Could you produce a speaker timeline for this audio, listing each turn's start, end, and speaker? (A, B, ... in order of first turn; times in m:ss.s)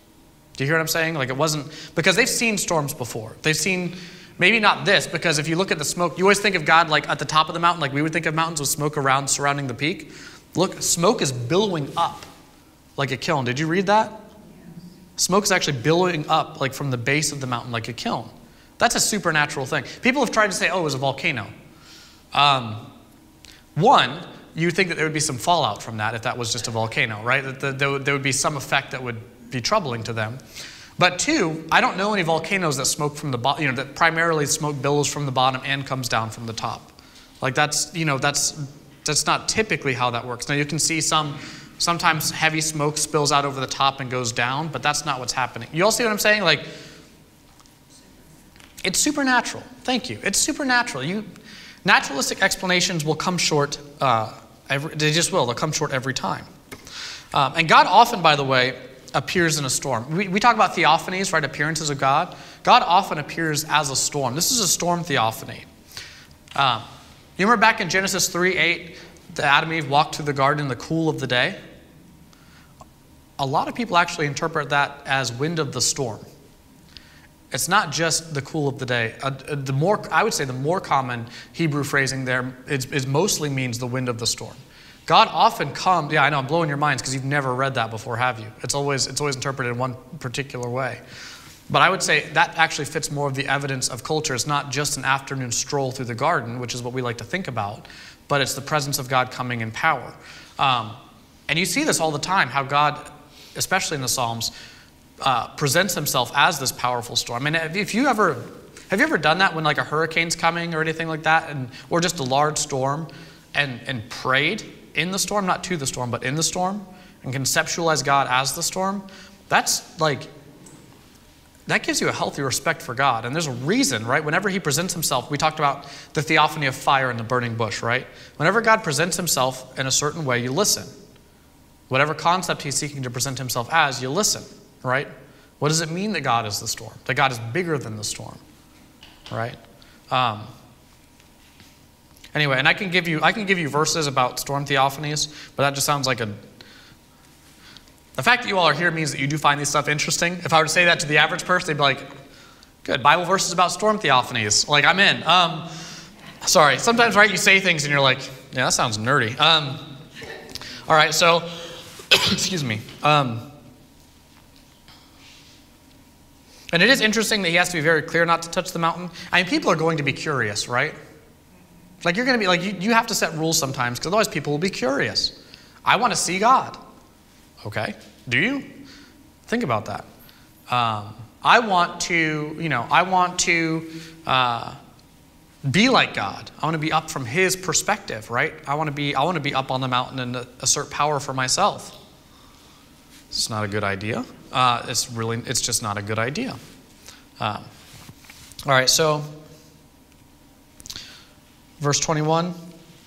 0:00.6-0:12.3 A
0:13.0-0:14.2 A
0:15.2-0:21.5 A
0:22.3-0:22.8 A
0:23.8-0:30.4 A
0:31.0-0:46.6 A
0:48.8-0:51.3 A
0:51.8-0:56.5 A
0:57.3-1:05.7 A
1:06.5-1:06.8 A
1:07.4-1:11.6 A
1:13.4-1:16.2 A
1:17.5-1:31.0 A
1:31.7-1:41.0 A
1:41.5-1:44.5 A
1:45.2-2:00.3 A
2:01.7-2:10.9 A
2:11.9-2:18.4 A
2:19.3-2:19.6 A
2:20.1-2:20.5 A
2:22.3-2:26.4 A
2:28.2-2:32.1 A
2:32.8-2:35.7 A
2:36.4-2:39.9 A
2:40.9-2:43.5 A
2:46.7-2:51.0 A
2:52.0-2:56.8 A
2:57.6-2:58.7 A
2:59.5-3:00.0 A
3:00.7-3:04.8 A
3:05.7-3:12.0 A
3:13.3-3:16.6 A
3:17.4-3:17.6 A
3:18.6-3:19.3 A
3:21.8-3:22.6 A